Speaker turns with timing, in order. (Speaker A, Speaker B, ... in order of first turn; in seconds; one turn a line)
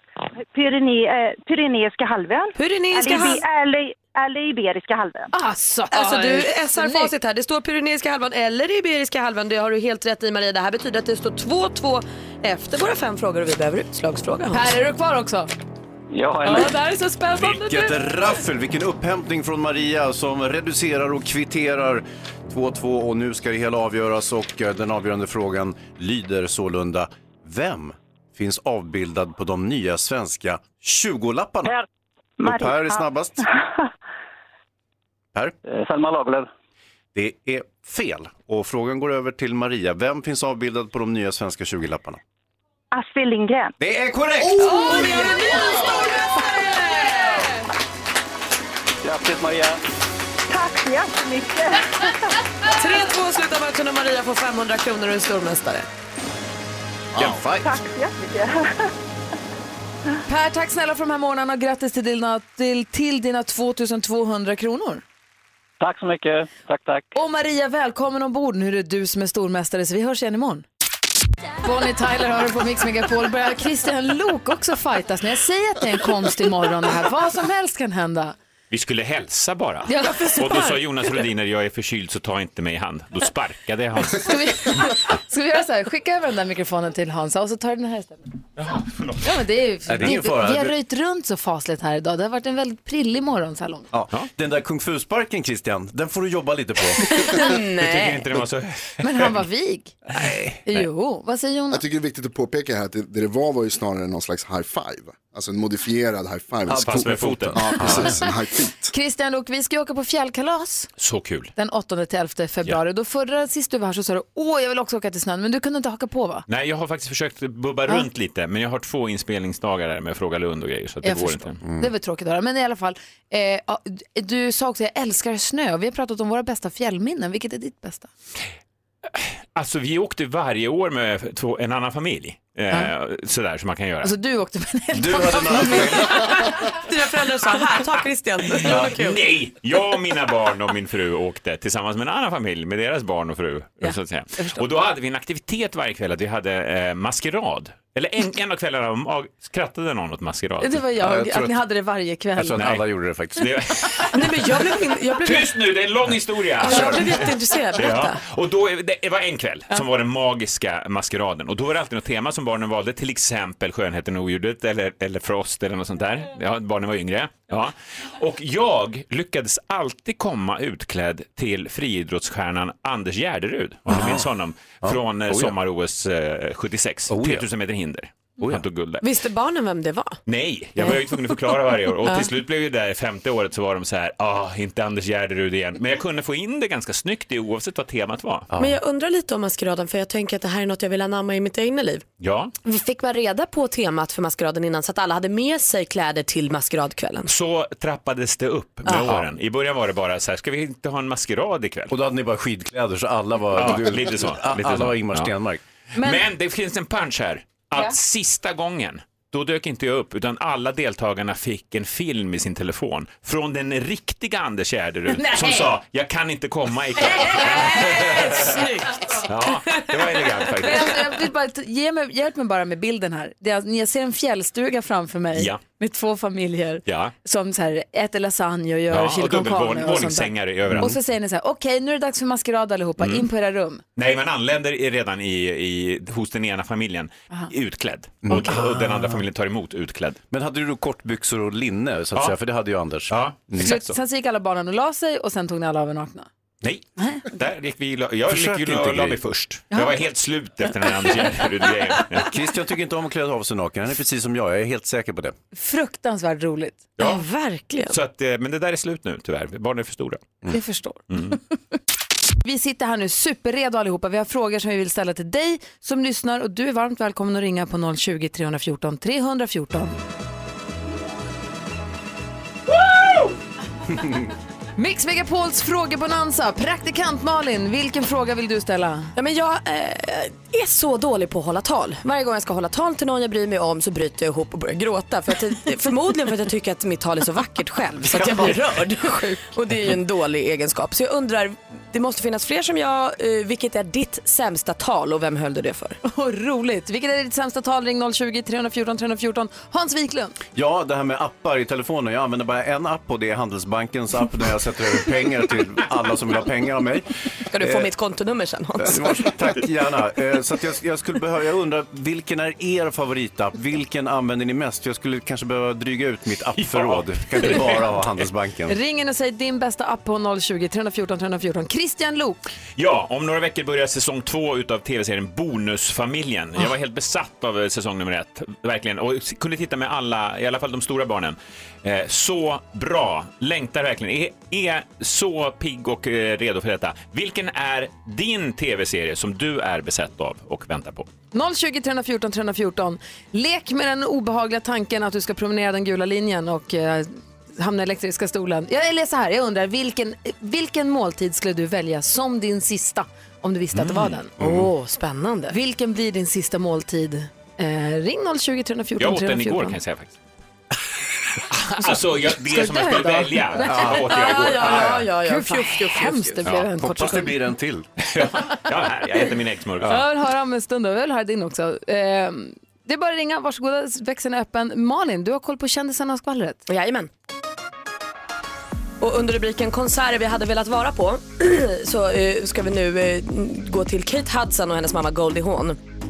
Speaker A: 0.5-5.3
Speaker B: 2.6-3.4
Speaker C: 5.3-7.1
Speaker B: 5.9-14.7
Speaker C: 14.5-15.5
Speaker D: 16.1-16.8
Speaker C: 16.5-18.0
Speaker E: 17.3-31.8
Speaker A: 32.4-33.1
Speaker E: 32.4-33.5
Speaker D: 35.7-36.5
Speaker E: 37.1-42.2
Speaker A: 42.9-43.7
Speaker E: 43.8-44.9
Speaker C: 44.6-47.3
Speaker B: 45.0-45.2
Speaker D: 49.0-49.8
Speaker A: 50.5-52.2
Speaker B: 52.7-55.9
Speaker E: 57.2-57.7
Speaker A: 57.6-58.9
Speaker C: 60.3-65.0
Speaker D: 65.8-67.1
Speaker C: 67.2-70.6
Speaker C: 71.6-78.4
Speaker F: 78.7-84.8
Speaker C: 79.9-80.8
Speaker C: 84.2-88.3
Speaker F: 88.6-89.3
Speaker C: 89.2-93.9
Speaker E: 89.9-90.8
Speaker E: 93.9-97.2
Speaker B: 97.3-98.3
Speaker F: 97.5-99.3
Speaker C: 99.0-100.0
Speaker E: 100.2-100.8
Speaker C: 100.7-101.8
Speaker G: 101.7-108.9
Speaker E: 106.7-108.2
Speaker F: 106.7-108.0
Speaker C: 108.9-110.9
Speaker F: 111.0-111.5
Speaker C: 111.6-116.5
Speaker F: 116.5-121.6
Speaker C: 121.0-128.1
Speaker E: 121.6-121.9
Speaker F: 129.2-134.2
Speaker C: 134.0-136.4
Speaker E: 134.9-136.3
Speaker B: 136.7-139.2
Speaker F: 138.6-150.9
Speaker E: 138.7-138.9
Speaker C: 143.8-144.6
Speaker C: 150.6-152.6
Speaker E: 150.9-151.6
Speaker E: 152.4-153.5
Speaker F: 152.6-154.2
Speaker B: 154.1-155.7
Speaker F: 155.2-179.0
Speaker B: 156.6-158.2
Speaker E: 156.6-157.1
Speaker E: 173.9-174.3
Speaker E: 174.8-175.6
Speaker E: 177.1-177.5
Speaker B: 179.0-180.2
Speaker F: 180.3-188.5
Speaker B: 180.8-181.1
Speaker E: 188.5-188.8
Speaker B: 188.6-192.1
Speaker F: 192.2-192.5
Speaker B: 192.6-197.3
Speaker F: 197.3-201.9
Speaker B: 198.9-199.2
Speaker E: 201.9-205.6
Speaker F: 203.5-205.3
Speaker F: 205.9-221.1
Speaker C: 217.2-218.7
Speaker C: 220.6-233.8
Speaker F: 225.3-225.6
Speaker F: 226.9-227.1
Speaker F: 228.9-230.9
Speaker E: 230.7-231.0
Speaker F: 233.0-233.3
Speaker F: 234.0-240.2
Speaker E: 238.2-239.2
Speaker E: 240.3-243.7
Speaker F: 243.1-244.0
Speaker C: 243.6-246.3
Speaker F: 246.6-252.3
Speaker C: 247.0-247.2
Speaker E: 248.3-249.2
Speaker C: 249.7-250.0
Speaker E: 252.2-255.3
Speaker C: 255.5-256.8
Speaker B: 257.0-258.0
Speaker F: 257.9-260.4
Speaker C: 260.5-261.0
Speaker F: 261.1-261.4
Speaker C: 262.4-269.9
Speaker C: 274.8-279.1
Speaker B: 279.2-296.0
Speaker E: 288.2-288.6
Speaker C: 296.0-300.4
Speaker E: 300.5-307.1
Speaker B: 307.5-309.3
Speaker E: 307.6-307.9
Speaker E: 308.8-318.8
Speaker F: 316.6-318.1
Speaker C: 318.7-322.4
Speaker F: 322.8-341.1
Speaker C: 341.3-354.3
Speaker F: 353.8-354.1
Speaker E: 354.4-354.7
Speaker B: 354.4-355.6
Speaker C: 355.5-359.8
Speaker F: 359.0-360.1
Speaker F: 361.5-364.9
Speaker C: 362.4-363.9
Speaker E: 363.6-365.0
Speaker B: 364.0-366.4
Speaker C: 365.2-367.4
Speaker E: 366.7-367.9
Speaker F: 368.0-370.1
Speaker C: 369.9-376.6
Speaker B: 376.7-377.1
Speaker B: 379.0-385.8